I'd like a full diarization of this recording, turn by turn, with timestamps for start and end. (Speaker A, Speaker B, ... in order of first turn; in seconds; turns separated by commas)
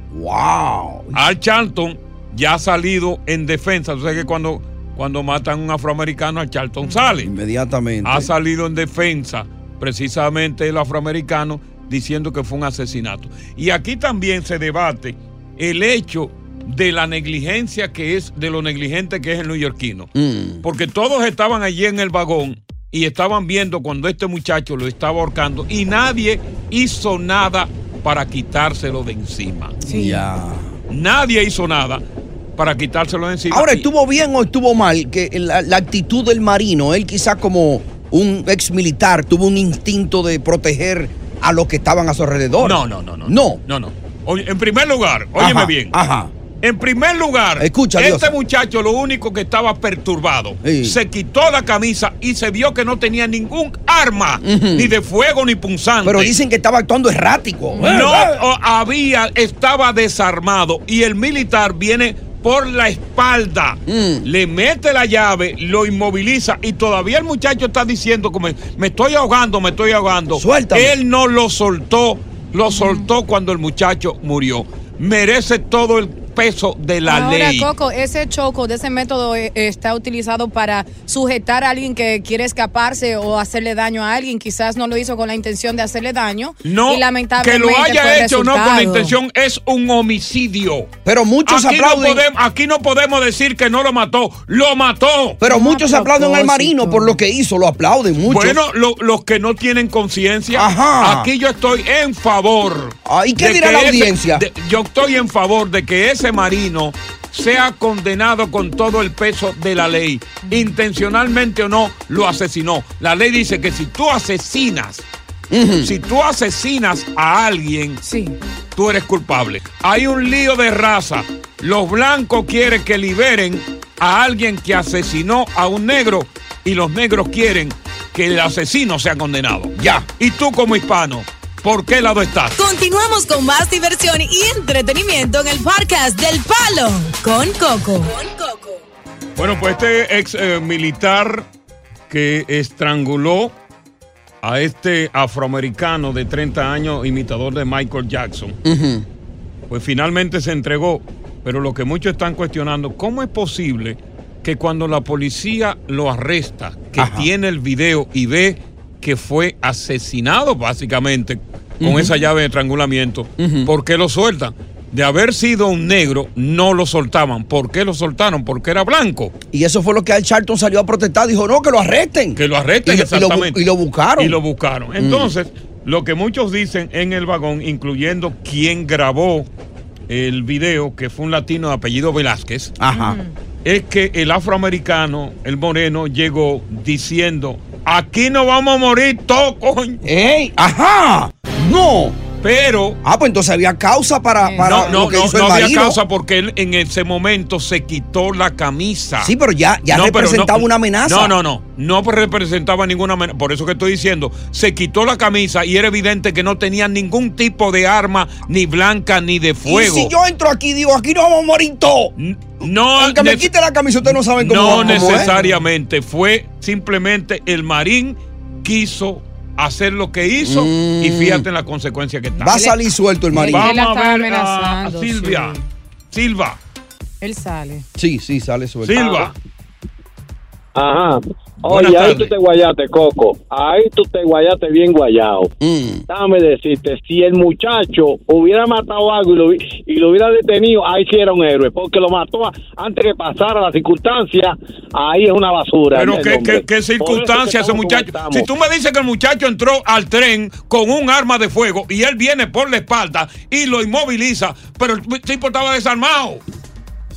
Speaker A: 0.1-1.3, Speaker B: 1.1-7.3, Speaker A: 7.2-8.3, Speaker B: 8.1-20.1, Speaker A: 20.1-20.6, Speaker B: 20.6-29.8, Speaker A: 29.8-30.7, Speaker C: 29.9-30.3, Speaker B: 30.9-32.0, Speaker B: 32.6-33.9, Speaker A: 33.5-43.6, Speaker B: 42.6-46.0, Speaker A: 45.4-46.3, Speaker B: 46.6-56.3, Speaker A: 47.6-48.3, Speaker A: 50.6-51.0, Speaker A: 54.4-54.9, Speaker A: 56.0-58.4, Speaker C: 57.8-58.1, Speaker B: 57.8-77.7, Speaker A: 63.9-64.3, Speaker A: 70.3-71.0, Speaker C: 72.7-73.1, Speaker C: 77.0-89.2, Speaker B: 86.6-90.9, Speaker A: 91.0-92.2, Speaker B: 91.5-95.4, Speaker A: 95.4-98.6, Speaker C: 95.5-97.2, Speaker B: 98.3-115.1, Speaker A: 100.5-101.3, Speaker A: 103.0-104.5, Speaker A: 115.5-115.9, Speaker B: 115.8-118.0, Speaker C: 118.0-118.4, Speaker B: 118.8-132.6, Speaker A: 129.8-130.1, Speaker D: 132.6-138.8, Speaker B: 139.4-141.5, Speaker B: 142.1-143.5, Speaker B: 144.4-148.6, Speaker A: 148.7-149.1, Speaker B: 149.7-169.3, Speaker A: 157.0-157.3, Speaker A: 161.8-162.1, Speaker A: 163.4-163.7, Speaker A: 169.5-174.4, Speaker B: 172.4-173.6, Speaker B: 174.2-179.5, Speaker A: 175.0-175.3, Speaker B: 180.1-182.8, Speaker A: 182.8-183.2, Speaker C: 182.9-183.3, Speaker B: 183.6-190.0, Speaker A: 190.0-192.2, Speaker B: 192.4-193.0, Speaker A: 193.0-196.0, Speaker C: 194.4-194.9, Speaker B: 194.6-199.3, Speaker A: 199.2-201.3, Speaker B: 199.9-210.1, Speaker A: 209.7-215.3, Speaker B: 212.2-213.5, Speaker B: 214.0-222.6, Speaker C: 214.6-215.6, Speaker A: 220.4-221.5, Speaker C: 222.3-222.8, Speaker A: 222.4-223.7, Speaker C: 223.3-225.7, Speaker B: 223.4-225.6, Speaker B: 226.1-226.6, Speaker C: 227.2-227.8, Speaker A: 228.0-229.3, Speaker B: 228.8-229.3, Speaker E: 230.8-235.5, Speaker B: 231.6-232.3, Speaker A: 235.6-236.1, Speaker E: 236.1-248.5, Speaker B: 245.9-256.4